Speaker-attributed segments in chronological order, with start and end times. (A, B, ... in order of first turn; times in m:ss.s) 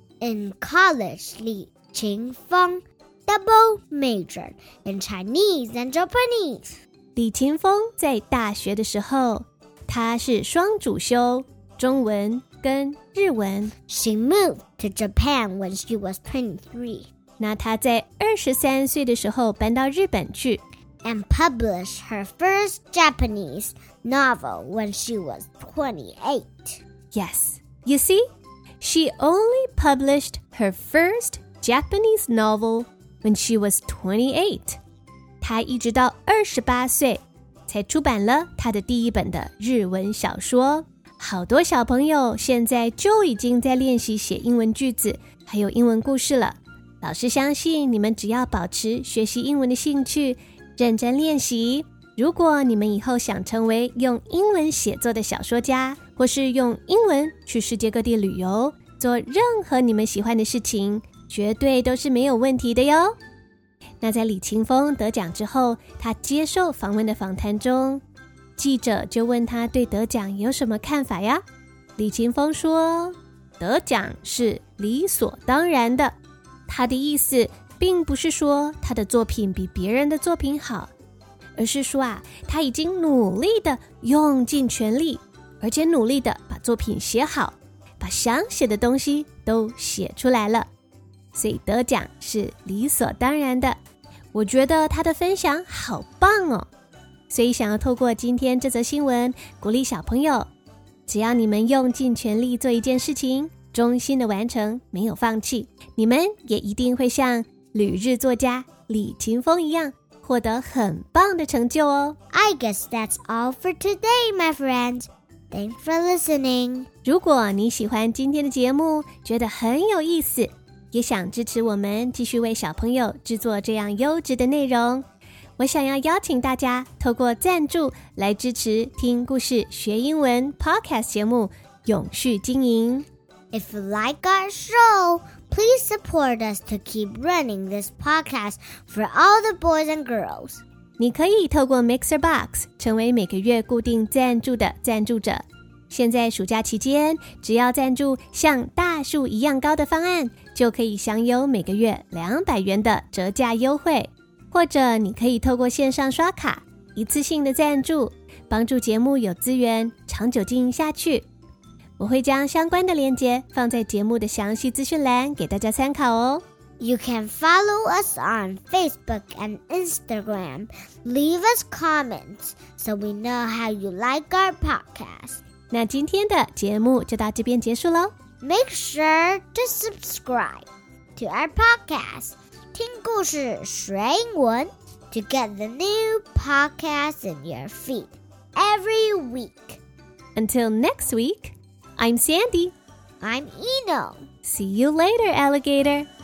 0:00.2-0:06.8 A
0:07.2-0:13.7 B
0:13.9-0:17.1 A
0:17.4-0:20.6 B
0:21.0-0:26.8 A
0:27.1-0:28.2 B
0:28.8-0:34.8 B
0:35.4-1:03.2 B
1:04.0-1:08.0 B
1:08.6-1:11.4 B
1:12.0-1:16.2 B
1:16.7-1:20.9 B
1:21.6-1:30.7 B
1:31.3-1:33.8 B
1:34.3-1:36.7 B
1:37.3-1:40.5 B
1:41.1-1:52.2 B
1:52.3-1:56.9 A
1:57.0-2:05.0 B
2:05.6-2:13.1 B
2:13.5-2:20.6 A
2:21.0-2:41.2 B
2:42.0-2:46.4 B
2:46.8-2:55.4 A
2:55.7-2:58.1 B
2:58.4-3:09.8 A
3:10.4-3:12.7 B
3:13.2-3:14.3 A
3:14.4-3:16.1 B